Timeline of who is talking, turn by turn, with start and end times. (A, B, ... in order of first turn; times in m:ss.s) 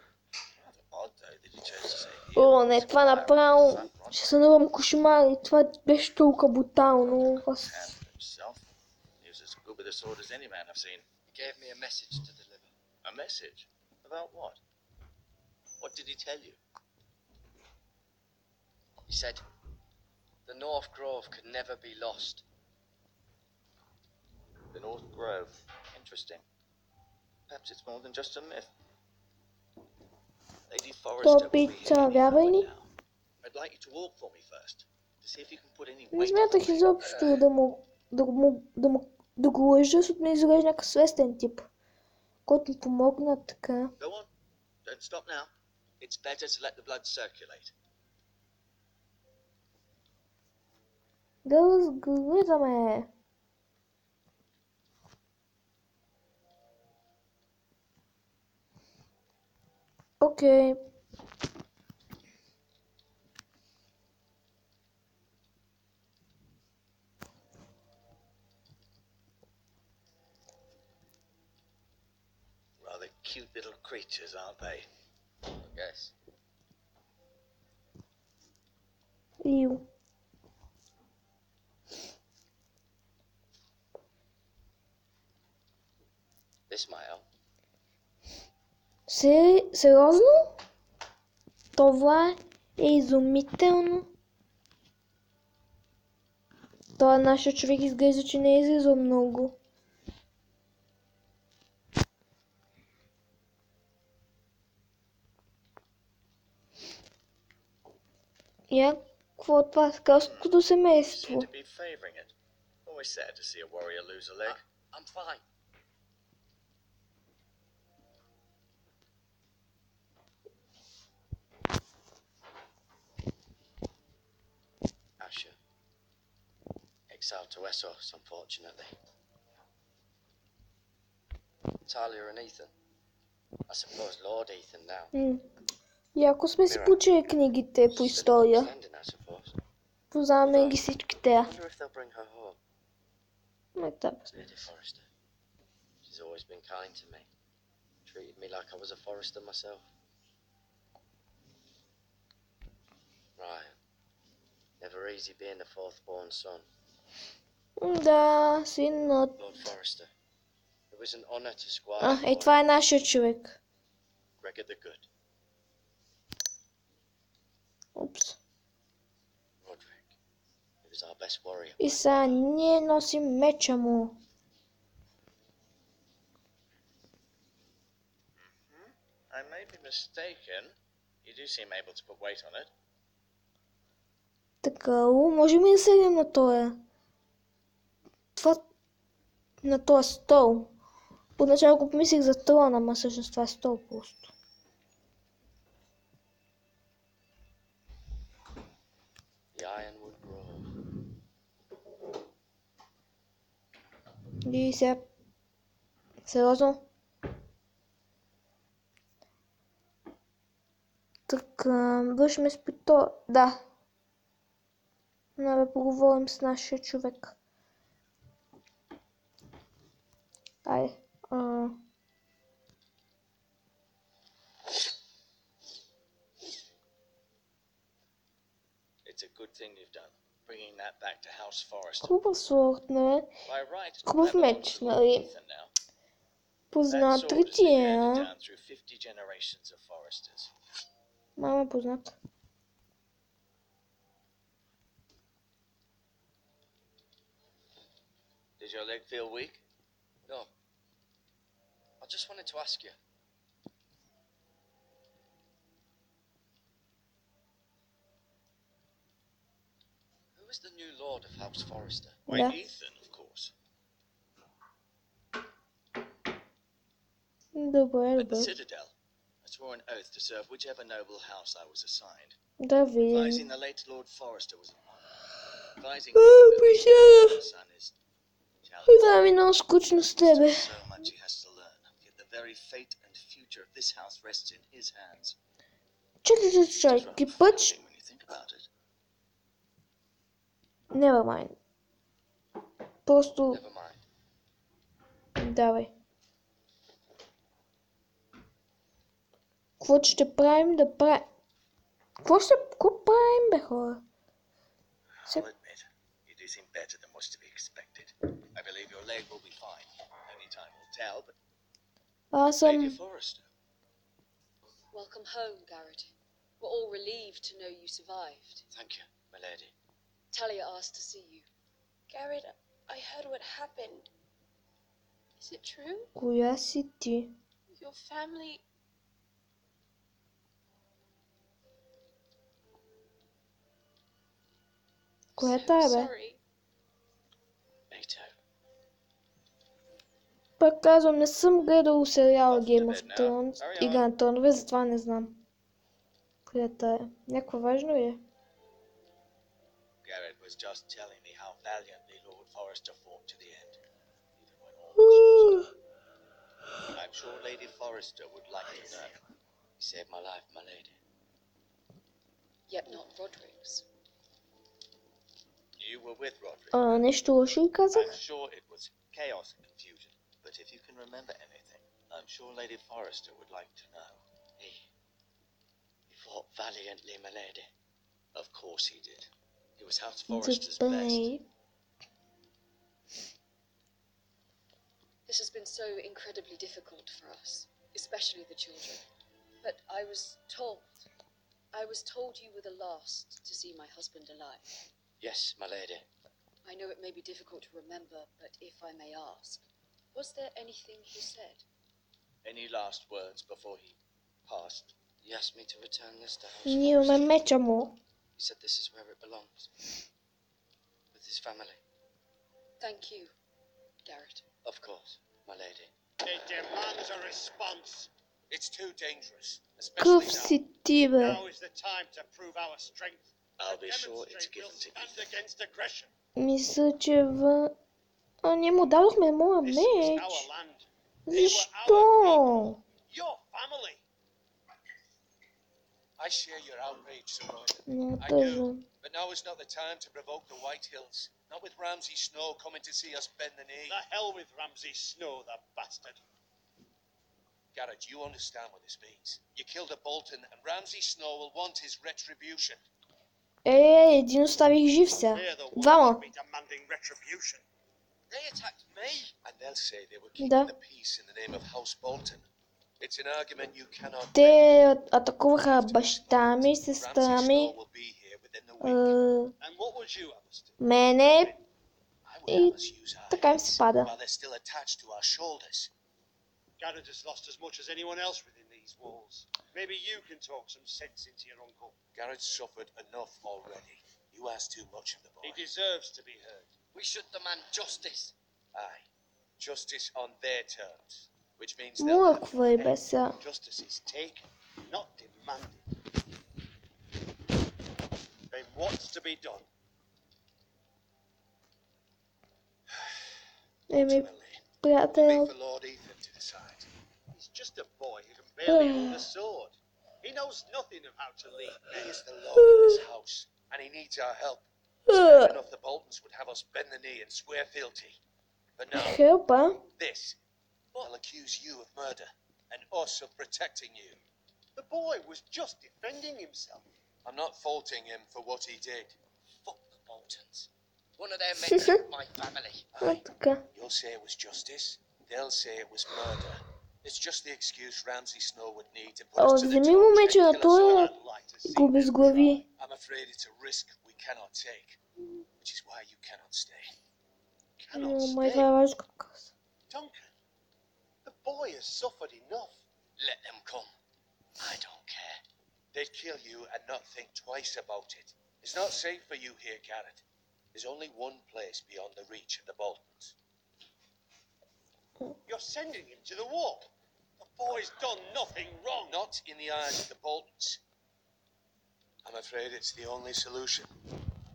0:00.6-0:04.4 A
0:02.3-0:07.7 B
0:07.0-0:08.6 A
0:09.2-0:11.0 A
0:11.3-0:12.7 C
0:13.0-0:14.6 A
0:15.8-0:16.6 A
0:19.1-0:19.4 C
0:20.4-0:22.4 C
0:24.7-0:26.4 A
0:27.5-0:28.7 A
0:30.7-0:32.9 A
0:31.2-0:32.7 B
0:33.4-0:37.0 A
0:36.1-0:41.7 B
0:37.0-0:37.4 C
0:42.4-0:43.9 B
0:44.0-0:44.3 A
0:44.8-0:47.7 A
0:51.4-0:53.1 B
1:00.2-1:00.8 B
1:12.8-1:14.9 A
1:15.5-1:16.1 C
1:19.4-1:19.8 B
1:26.7-1:27.2 C
1:29.1-1:30.6 B
1:31.7-1:34.1 B
1:37.0-1:39.6 B
1:48.7-1:51.5 B
1:50.2-1:52.3 A
1:52.8-1:54.6 A
1:54.4-1:55.4 C
2:05.2-2:05.6 C
2:07.1-2:08.9 C
2:11.8-2:12.7 C
2:13.7-2:15.1 C
2:15.1-2:15.4 B
2:16.1-2:18.7 B
2:16.6-2:17.0 C
2:17.9-2:19.6 C
2:20.1-2:21.5 B
2:20.4-2:22.6 C
2:23.8-2:24.2 B
2:24.2-2:25.1 C
2:26.0-2:27.3 C
2:28.0-2:29.8 C
2:33.4-2:33.8 C
2:34.8-2:36.6 C
2:37.8-2:39.4 B
2:39.4-2:40.1 C
2:40.9-2:42.5 C
2:42.0-2:43.6 B
2:44.4-2:45.0 C
2:48.0-2:48.4 B
2:49.6-2:50.1 C
2:50.8-2:52.4 C
2:51.8-2:54.2 B
2:58.6-3:02.7 A
3:04.6-3:06.8 B
3:08.4-3:08.6 B
3:09.6-3:10.7 B
3:11.4-3:14.3 B
3:19.5-3:20.7 C
3:24.4-3:25.0 B
3:26.2-3:26.8 B
3:31.3-3:33.6 B
3:35.4-3:37.3 B
3:40.6-3:41.8 B
3:49.0-3:52.1 A
3:52.0-3:53.3 B
3:53.4-3:55.7 A
3:54.0-3:55.3 B
3:56.7-3:58.3 B
3:56.9-4:00.5 A
4:01.4-4:02.1 B
4:08.6-4:09.6 A
4:10.2-4:10.5 C
4:12.0-4:13.0 C
4:20.3-4:22.2 C
4:22.3-4:23.5 A
4:22.3-4:22.5 B
4:27.5-4:28.5 B
4:28.2-4:32.4 A
4:32.6-4:33.5 B
4:33.0-4:38.0 A
4:36.1-4:37.4 B
4:38.6-4:39.2 A
4:38.9-4:40.6 B
4:40.2-4:45.4 A
4:46.2-4:47.8 B
4:46.8-4:48.7 A
4:50.9-4:51.6 B
4:53.0-4:53.6 B
4:53.5-4:54.0 C
4:55.4-4:55.9 B
4:59.8-5:01.2 B
5:02.2-5:04.0 B
5:05.2-5:05.7 D
5:05.6-5:11.4 A
5:12.3-5:13.0 B
5:12.6-5:13.5 A
5:14.9-5:18.6 E
5:18.7-5:19.7 C
5:20.3-5:21.4 E
5:22.1-5:24.1 F
5:25.4-5:26.1 F
5:26.2-5:27.3 B
5:27.7-5:28.6 F
5:35.4-5:36.1 B
5:35.4-5:36.4 F
5:37.9-5:38.3 A
5:40.6-5:45.4 B
5:42.5-5:44.1 A
5:46.5-5:48.2 B
5:50.0-5:53.8 A
5:54.4-5:55.7 A
5:55.0-5:55.7 B
5:56.9-5:59.2 A
5:59.8-6:01.0 C
6:02.7-6:03.8 E
6:05.7-6:07.0 A
6:06.7-6:08.2 B
6:07.9-6:14.2 A
6:14.6-6:14.9 C
6:16.1-6:17.6 C
6:18.3-6:21.3 A
6:20.3-6:21.4 B
6:25.2-6:29.0 E
6:29.6-6:31.0 E
6:31.7-6:34.7 E
6:35.2-6:36.0 C
6:36.6-6:39.6 E
6:40.1-6:41.6 E
6:42.4-6:44.9 A
6:45.2-6:47.3 C
6:46.6-6:48.0 B
6:48.4-6:49.9 C
6:51.1-6:51.8 C
6:52.8-6:53.3 E
6:54.0-6:54.4 E
6:54.6-6:55.9 C
6:56.2-6:58.1 G
6:58.5-7:00.6 D
7:00.0-7:01.4 B
7:01.2-7:06.1 G
7:03.6-7:05.3 A
7:06.4-7:07.7 B
7:08.4-7:10.5 B
7:09.6-7:14.0 G
7:11.3-7:12.8 B
7:16.2-7:24.0 D
7:17.9-7:18.8 B
7:23.9-7:26.2 G
7:27.7-7:32.8 D
7:33.6-7:36.2 B
7:35.3-7:37.6 G
7:38.3-7:39.3 C
7:39.4-7:44.9 D
7:40.4-7:40.7 B
7:44.3-7:47.7 B
7:45.6-7:49.2 D
7:48.8-7:49.5 B
7:49.6-7:51.6 G
7:50.8-7:51.5 B
7:52.2-7:55.9 D
7:52.5-7:52.8 B
7:53.3-7:54.1 B
7:56.8-8:02.0 G
8:02.1-8:05.7 D
8:05.4-8:06.7 G
8:06.9-8:08.3 C
8:08.7-8:09.1 D
8:09.6-8:12.9 D
8:12.0-8:13.4 B
8:12.8-8:15.8 G
8:18.5-8:19.6 G
8:22.9-8:23.2 D
8:23.9-8:24.3 B
8:23.9-8:26.9 D
8:24.8-8:25.5 B
8:27.3-8:32.2 G
8:28.6-8:29.2 B
8:31.8-8:38.2 D
8:32.6-8:33.0 B
8:35.1-8:35.6 B
8:38.8-8:39.2 D
8:38.9-8:39.8 B
8:39.9-8:40.4 D
8:41.0-8:44.2 D
8:44.8-8:46.9 G
8:47.2-8:49.2 D
8:49.6-8:52.9 C
8:52.9-9:01.1 D
8:53.0-8:53.6 B
8:59.4-9:01.1 B
9:00.7-9:02.6 G
9:01.6-9:02.6 B
9:02.8-9:05.0 D
9:05.6-9:06.9 D
9:07.8-9:08.8 G
9:07.9-9:09.5 B
9:09.9-9:10.3 G
9:11.2-9:12.8 G
9:13.2-9:13.9 C
9:14.6-9:15.4 C
9:15.9-9:23.3 D
9:25.5-9:26.9 G
9:27.4-9:29.1 G
9:29.1-9:30.8 D
9:32.2-9:33.9 D